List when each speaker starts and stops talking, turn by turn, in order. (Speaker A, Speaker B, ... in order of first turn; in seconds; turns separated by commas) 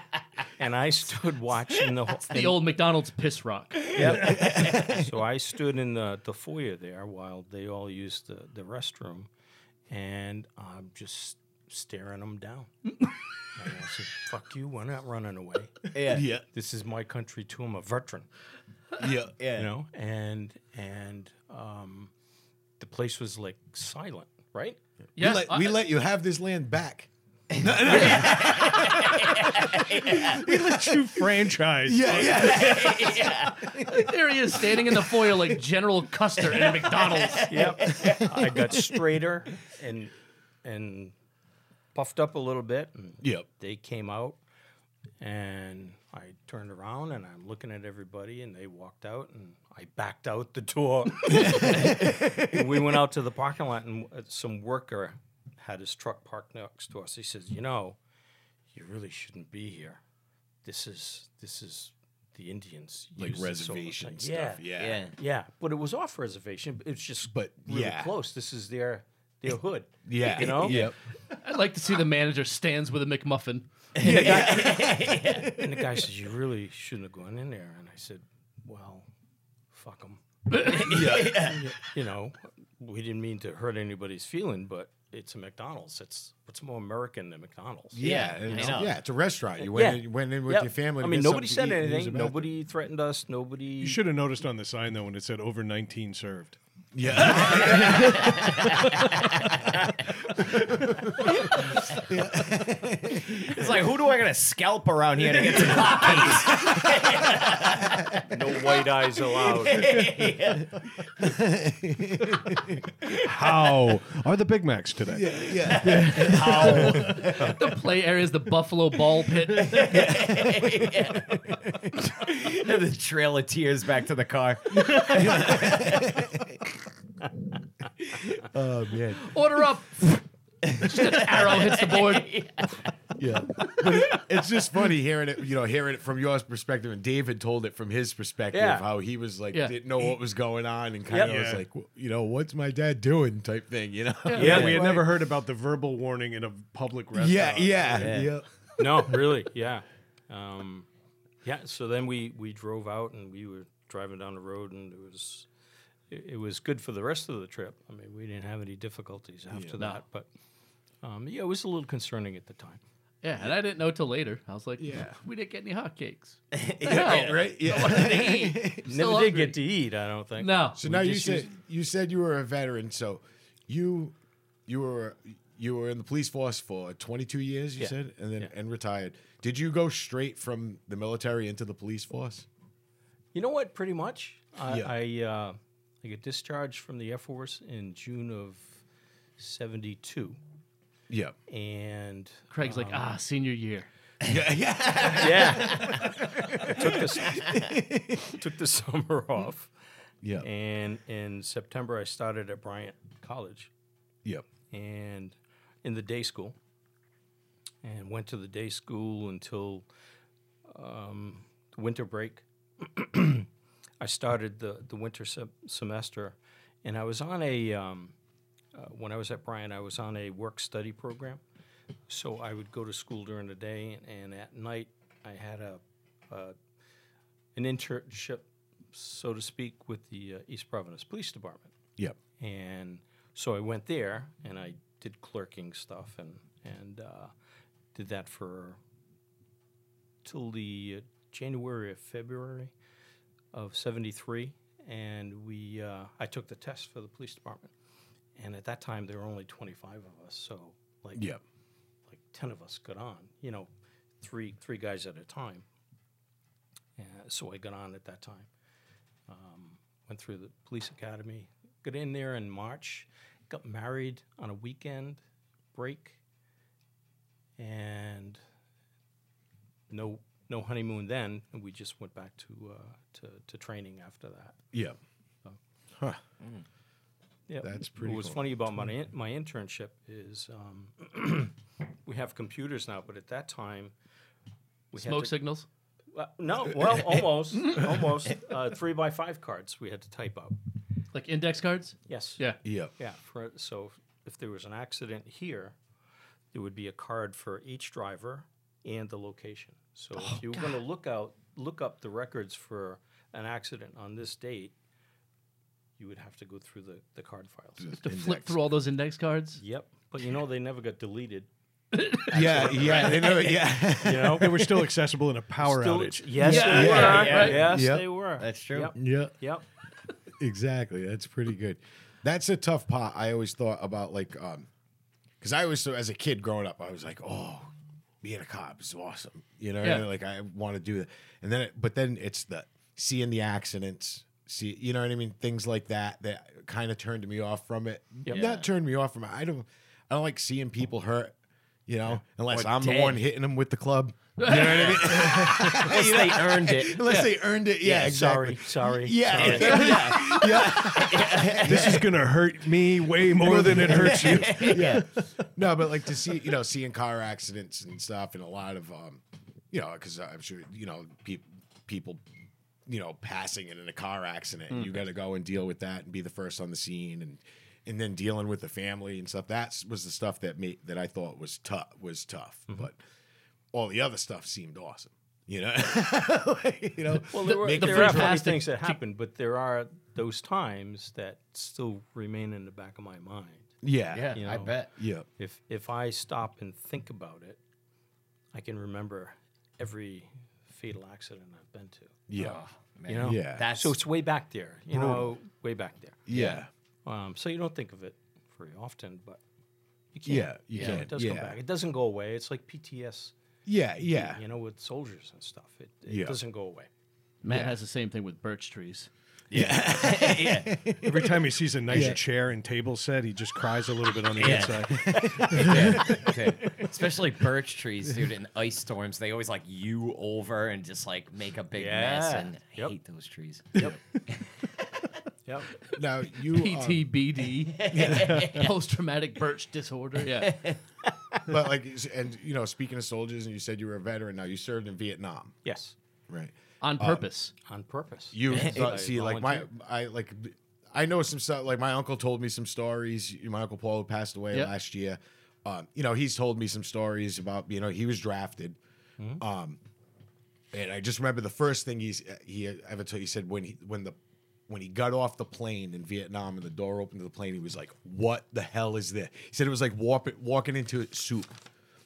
Speaker A: 0.6-2.6, Speaker B: 2.3-4.0, Speaker A: 3.9-9.3, Speaker C: 4.2-4.9, Speaker A: 9.9-12.7, Speaker A: 13.5-18.3, Speaker D: 15.9-16.2, Speaker C: 16.1-16.4, Speaker C: 19.0-19.3, Speaker D: 19.4-19.7, Speaker A: 19.5-22.1, Speaker A: 22.8-24.8, Speaker C: 25.1-30.7, Speaker B: 25.2-25.8, Speaker D: 27.9-30.3, Speaker E: 30.2-32.9, Speaker C: 31.9-34.0, Speaker D: 32.5-33.6, Speaker B: 33.8-37.5, Speaker D: 36.8-38.8, Speaker A: 37.5-40.1, Speaker C: 37.9-38.8, Speaker A: 40.6-41.1, Speaker A: 41.9-44.4, Speaker A: 45.2-58.0, Speaker C: 51.4-52.5, Speaker A: 58.7-60.0, Speaker A: 60.6-70.9, Speaker C: 63.2-65.0, Speaker D: 64.8-65.1, Speaker C: 67.3-68.1, Speaker C: 70.0-71.0, Speaker D: 70.2-70.9, Speaker B: 71.4-73.7, Speaker D: 74.0-75.5, Speaker C: 74.0-75.8, Speaker A: 74.0-74.8, Speaker A: 75.5-79.1, Speaker A: 79.7-88.9, Speaker D: 80.5-81.7, Speaker C: 80.8-81.6, Speaker C: 87.9-92.4, Speaker D: 88.0-88.9, Speaker A: 89.6-94.0, Speaker E: 93.8-96.6, Speaker C: 96.9-98.3, Speaker D: 97.4-99.1, Speaker C: 100.4-101.2, Speaker D: 101.7-102.0, Speaker C: 101.9-103.6, Speaker D: 103.1-108.8, Speaker C: 105.5-107.0, Speaker C: 107.6-108.0, Speaker A: 108.3-109.9, Speaker D: 109.3-110.9, Speaker C: 111.2-112.9, Speaker E: 113.2-117.1, Speaker C: 115.1-117.5, Speaker D: 115.7-117.7, Speaker B: 117.0-120.0, Speaker D: 119.6-126.3, Speaker C: 119.9-122.3, Speaker C: 124.9-126.5, Speaker C: 128.1-129.3, Speaker B: 129.2-130.2, Speaker D: 130.7-132.9, Speaker B: 130.8-132.3, Speaker C: 133.2-144.8, Speaker A: 138.5-138.8, Speaker A: 141.1-141.3, Speaker E: 141.2-141.6, Speaker B: 144.2-144.6, Speaker E: 144.3-148.2, Speaker A: 144.4-145.0, Speaker D: 144.5-144.8, Speaker C: 147.1-149.1, Speaker D: 148.0-148.3, Speaker A: 148.8-150.9, Speaker A: 151.4-155.5, Speaker A: 156.1-160.3, Speaker C: 159.5-159.8, Speaker A: 161.0-162.8, Speaker B: 163.2-169.6, Speaker C: 164.8-165.2, Speaker D: 166.5-168.2, Speaker C: 166.8-168.8, Speaker A: 168.8-171.5, Speaker B: 170.4-170.8, Speaker C: 170.8-174.2, Speaker C: 174.7-182.4, Speaker A: 177.8-178.5, Speaker A: 183.3-188.8, Speaker C: 184.7-184.9, Speaker A: 189.4-190.4, Speaker C: 191.1-191.3, Speaker A: 191.5-193.1, Speaker B: 192.5-193.9, Speaker C: 194.2-198.4, Speaker D: 194.9-195.9, Speaker A: 195.0-199.7, Speaker C: 200.2-200.5, Speaker A: 200.4-203.7, Speaker A: 204.7-206.6, Speaker A: 207.8-209.8, Speaker A: 210.7-213.5, Speaker A: 214.0-218.1, Speaker A: 218.7-221.4, Speaker A: 222.1-226.5, Speaker A: 227.5-231.7, Speaker A: 232.4-237.3, Speaker A: 237.9-238.8, Speaker A: 240.2-242.7, Speaker A: 243.5-247.7, Speaker A: 248.3-251.3, Speaker C: 251.1-251.4, Speaker A: 252.1-253.7, Speaker A: 254.2-255.6, Speaker A: 257.0-258.5, Speaker A: 259.3-265.2, Speaker A: 265.7-266.2, Speaker A: 267.6-268.4, Speaker A: 269.9-274.6, Speaker A: 277.5-283.9, Speaker C: 277.6-278.4, Speaker A: 284.9-285.4, Speaker B: 285.0-285.7, Speaker A: 286.1-290.6, Speaker B: 287.5-287.8, Speaker B: 291.1-292.6, Speaker A: 292.1-295.8, Speaker C: 292.6-292.9, Speaker A: 296.5-304.7, Speaker A: 306.0-307.9, Speaker C: 307.8-308.6, Speaker B: 308.0-309.6, Speaker A: 309.6-311.5, Speaker B: 311.9-312.3, Speaker A: 312.2-314.6, Speaker C: 312.3-314.7, Speaker B: 313.0-313.5, Speaker E: 314.3-316.5, Speaker A: 315.6-319.6, Speaker C: 316.4-318.1, Speaker B: 316.5-317.6, Speaker D: 316.7-318.9, Speaker C: 318.9-319.3, Speaker C: 320.4-324.7, Speaker C: 325.4-341.3, Speaker D: 338.3-338.7, Speaker C: 341.9-352.1, Speaker D: 342.1-343.2, Speaker B: 344.4-345.3, Speaker D: 344.8-347.0, Speaker A: 347.8-350.1, Speaker D: 349.3-352.1, Speaker B: 349.5-349.9, Speaker E: 351.6-355.4, Speaker C: 353.0-362.2, Speaker D: 353.5-355.1, Speaker C: 362.9-373.0, Speaker C: 373.7-378.4, Speaker A: 377.2-383.7, Speaker B: 377.4-379.0, Speaker C: 383.8-384.4, Speaker D: 384.1-384.9, Speaker A: 384.3-387.6, Speaker C: 385.0-385.2, Speaker A: 388.5-399.4, Speaker C: 392.3-392.6, Speaker D: 392.4-393.9, Speaker C: 393.2-393.7, Speaker C: 394.9-395.3, Speaker C: 396.2-396.7, Speaker D: 396.3-396.6, Speaker A: 400.1-403.3, Speaker C: 400.2-401.6, Speaker D: 400.8-401.0, Speaker C: 403.6-404.4, Speaker A: 404.0-406.9, Speaker C: 406.1-406.4, Speaker B: 407.4-409.1, Speaker D: 409.5-410.9, Speaker C: 409.5-411.4, Speaker E: 411.0-416.2, Speaker C: 411.9-412.2, Speaker D: 411.9-412.2, Speaker D: 414.3-425.1, Speaker C: 414.5-416.8, Speaker A: 421.7-422.9, Speaker A: 425.4-425.8, Speaker C: 425.9-427.1, Speaker B: 426.5-430.6, Speaker D: 427.8-428.7, Speaker C: 427.9-428.5, Speaker D: 430.2-431.5, Speaker C: 431.4-435.6, Speaker A: 435.6-435.9, Speaker C: 436.3-437.2, Speaker B: 436.8-437.5, Speaker A: 437.7-439.7, Speaker C: 438.3-448.8, Speaker D: 438.5-439.0, Speaker C: 449.4-449.8, Speaker C: 450.7-454.2, Speaker C: 454.7-461.6